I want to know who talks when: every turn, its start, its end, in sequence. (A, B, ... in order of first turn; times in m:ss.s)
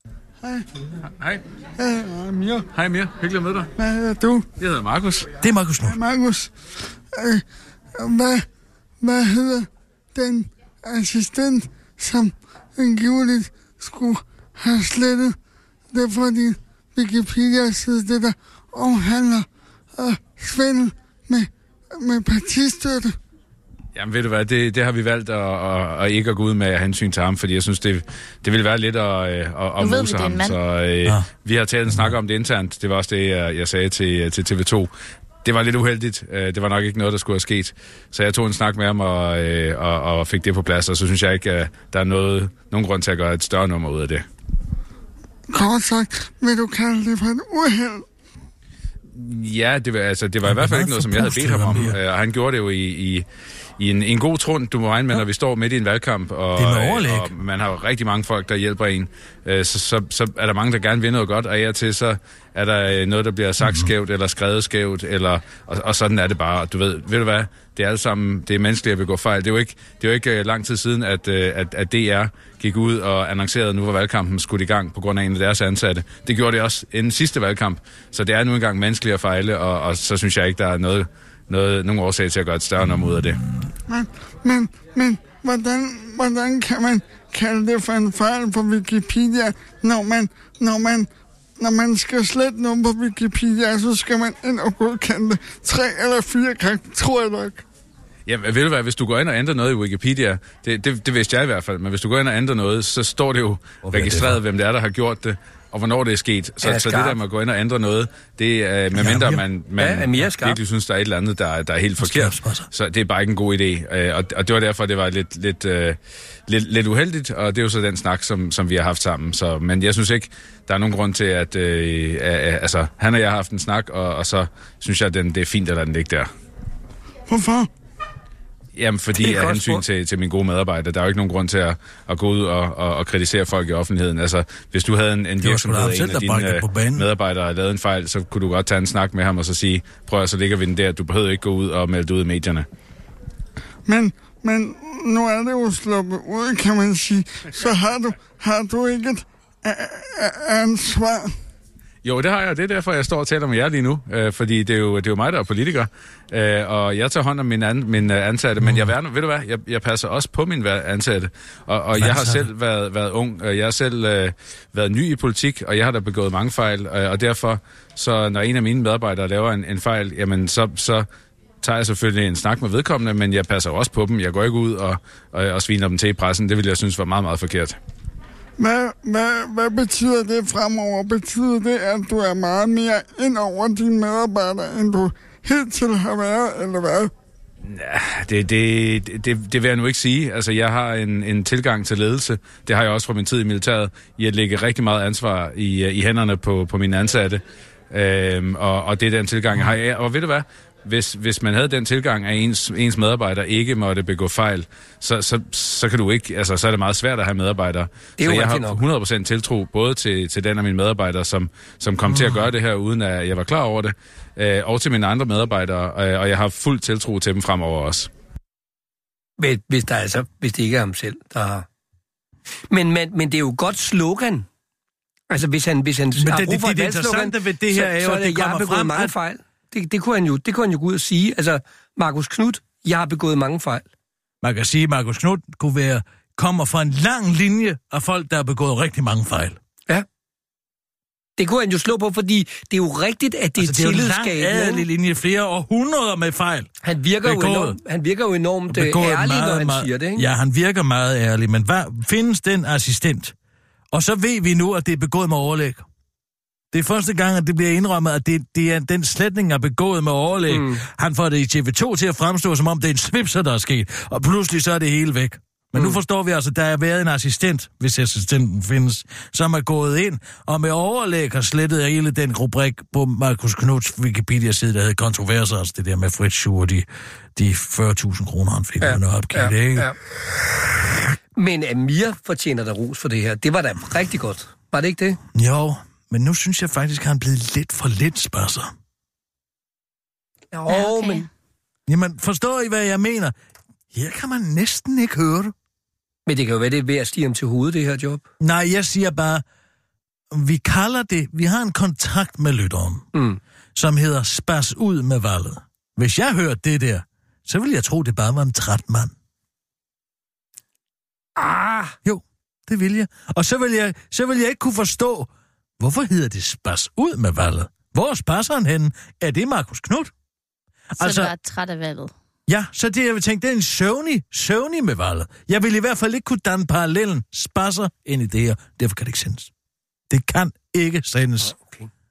0:01.8-0:02.7 A
0:02.7-0:03.7 B
0:03.8-0:04.4 A
0:04.6-0:05.3 B
0:05.4-0:06.0 C
0:05.8-0:06.6 A
0:07.1-0:07.4 A
0:08.0-0:08.4 A
0:09.0-0:15.4 A
0:15.9-0:23.2 A
0:24.0-0:34.9 B
0:29.8-0:30.6 D
0:31.9-0:32.1 C
0:35.4-0:44.2 B
0:45.5-0:48.0 A
0:49.1-0:53.3 B
0:50.4-0:52.0 C
0:53.8-1:23.4 B
0:56.6-0:57.3 C
1:03.6-1:03.9 C
1:23.9-1:37.6 A
1:38.3-2:06.3 B
1:43.8-1:44.4 C
1:46.6-1:47.2 E
1:48.9-1:49.4 C
1:49.8-1:50.6 E
1:52.0-1:52.7 C
2:07.3-2:07.7 A
2:08.7-2:22.6 B
2:09.2-2:09.8 E
2:15.4-2:17.1 C
2:23.9-2:31.3 A
2:32.0-2:51.1 B
2:38.6-2:38.9 C
2:42.0-2:42.5 C
2:51.6-2:57.8 B
2:58.6-3:07.1 A
3:07.7-3:38.1 B
3:28.2-3:28.8 E
3:39.4-3:41.6 E
3:42.7-3:44.4 E
3:45.3-3:53.9 E
3:46.2-3:49.1 C
3:54.4-3:59.6 C
4:01.4-4:04.8 E
4:03.6-4:06.7 C
4:06.8-4:10.2 E
4:07.2-4:07.8 C
4:08.7-4:13.3 C
4:13.9-4:15.8 C
4:16.7-4:40.0 C
4:20.5-4:20.8 E
4:38.8-4:40.0 E
4:41.4-4:45.2 E
4:45.3-4:48.7 C
4:50.5-4:51.2 E
4:50.7-4:51.3 D
4:51.9-4:53.3 C
4:53.9-4:55.5 C
4:56.3-4:58.2 E
4:58.4-4:59.4 C
5:00.3-5:03.1 C
5:03.1-5:03.4 E
5:03.7-5:09.1 C
5:11.4-5:12.0 E
5:12.0-5:20.1 C
5:21.0-5:21.3 C
5:21.0-5:22.1 D
5:22.5-5:29.5 C
5:30.1-5:31.5 C
5:31.4-5:31.9 E